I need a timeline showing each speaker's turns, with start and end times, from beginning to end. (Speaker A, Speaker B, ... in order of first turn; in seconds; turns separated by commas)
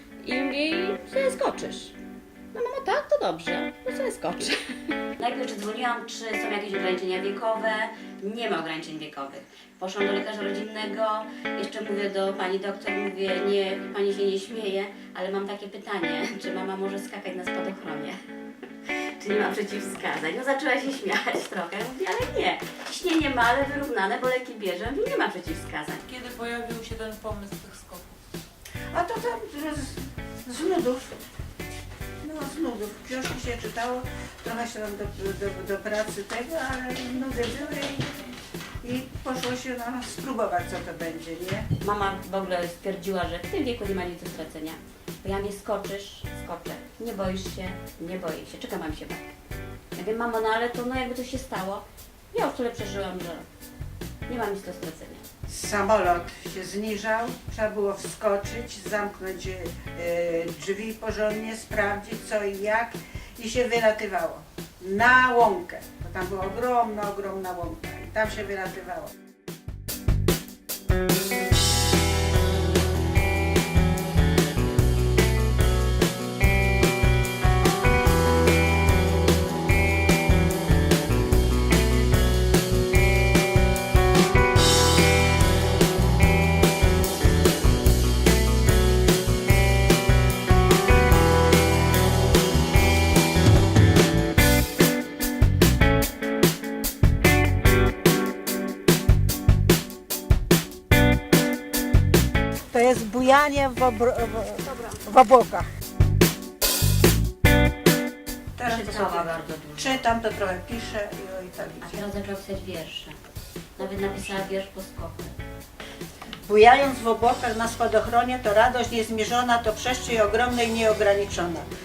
Speaker A: 0.2-1.9, Speaker A: 2.5-4.6, Speaker A: 5.2-18.2, Speaker A: 19.2-26.1, Speaker B: 26.1-28.1, Speaker C: 28.9-31.1, Speaker C: 32.2-38.1, Speaker C: 38.8-41.7, Speaker A: 41.8-49.3, Speaker A: 49.9-53.5, Speaker A: 54.3-55.2, Speaker C: 55.5-69.1, Speaker C: 102.7-105.7, Speaker C: 108.5-112.1, Speaker A: 108.6-110.0, Speaker A: 111.8-113.2, Speaker A: 113.8-115.3, Speaker C: 116.4-121.7